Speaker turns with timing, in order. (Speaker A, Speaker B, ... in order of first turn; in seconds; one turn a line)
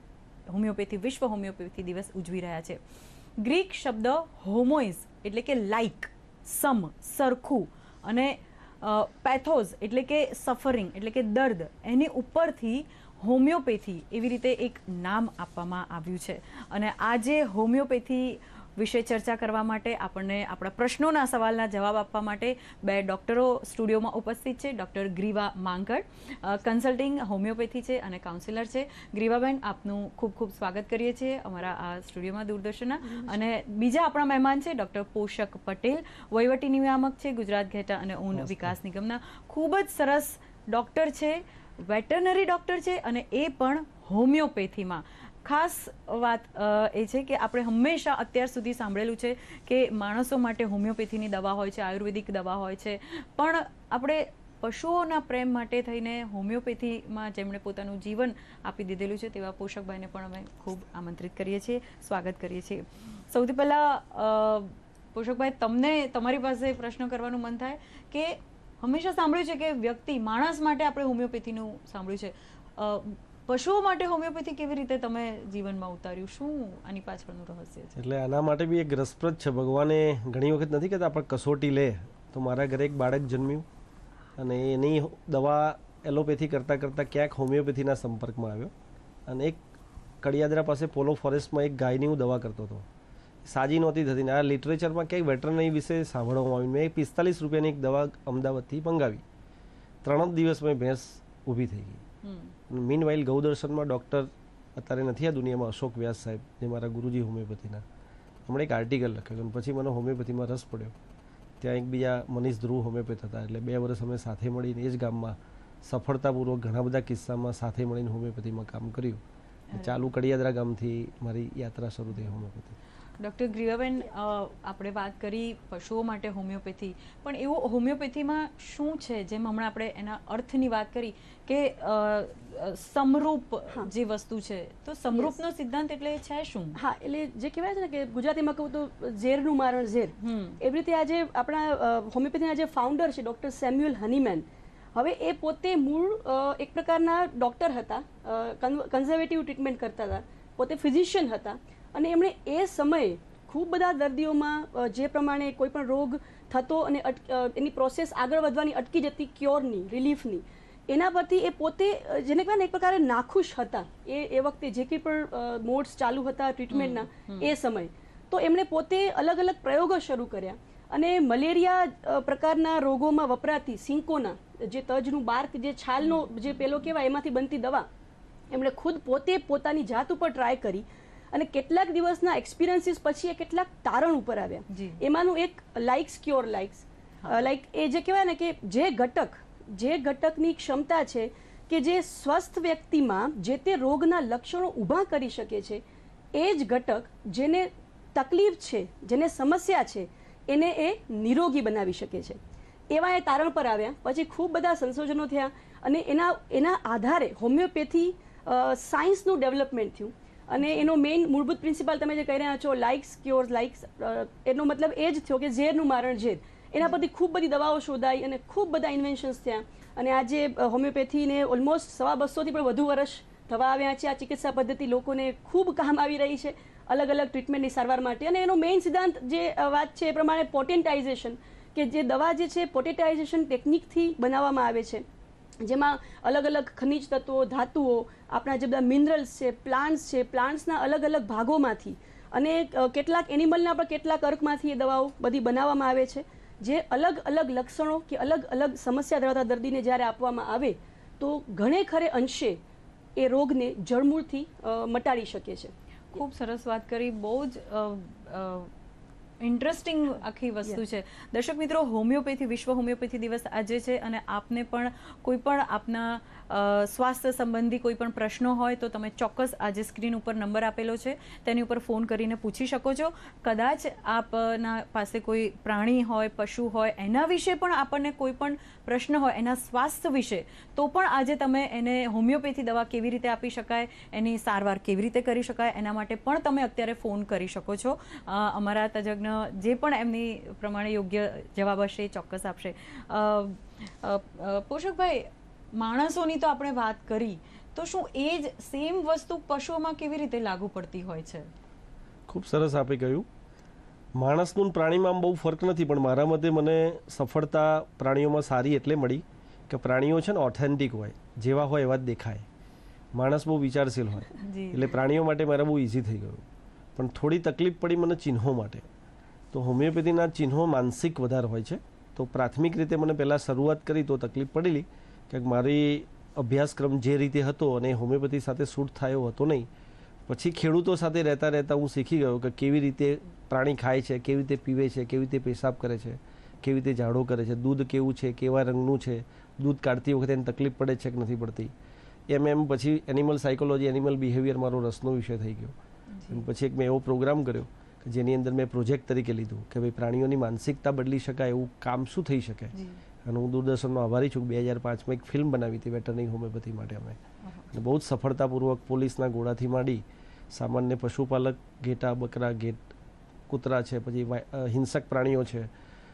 Speaker A: 0.5-2.8
Speaker A: 3.4-78.0
Speaker B: 33.1-33.4
Speaker C: 38.3-38.7
Speaker C: 78.0-83.7
Speaker C: 84.4-88.7
Speaker C: 89.3-89.6
Speaker C: 90.2-92.9
Speaker C: 93.4-99.2
Speaker C: 100.0-102.0
Speaker A: 102.2-102.5
Speaker C: 102.7-107.8
Speaker C: 108.5-111.0
Speaker C: 111.6-119.2
Speaker A: 119.7-120.0
Speaker C: 119.7-122.8
Speaker A: 123.2-136.8
Speaker B: 136.8-177.9
Speaker A: 140.2-140.6
Speaker A: 166.7-167.5
Speaker B: 178.5-195.8
Speaker A: 184.7-185.0
Speaker B: 196.3-202.4
Speaker B: 202.9-235.0
Speaker A: 210.6-210.9
Speaker B: 235.6-252.6
Speaker B: 253.2-256.2
Speaker A: 256.1-258.7
Speaker A: 259.4-301.5
Speaker C: 302.3-303.3
Speaker C: 304.1-312.4
Speaker C: 313.1-318.9
Speaker A: 314.4-314.9
Speaker C: 319.5-329.7
Speaker C: 330.3-341.7
Speaker C: 342.3-345.8
Speaker A: 346.1-346.4
Speaker C: 346.3-357.2
Speaker A: 352.7-353.0
Speaker A: 357.4-357.7
Speaker C: 357.7-362.8
Speaker C: 363.5-365.7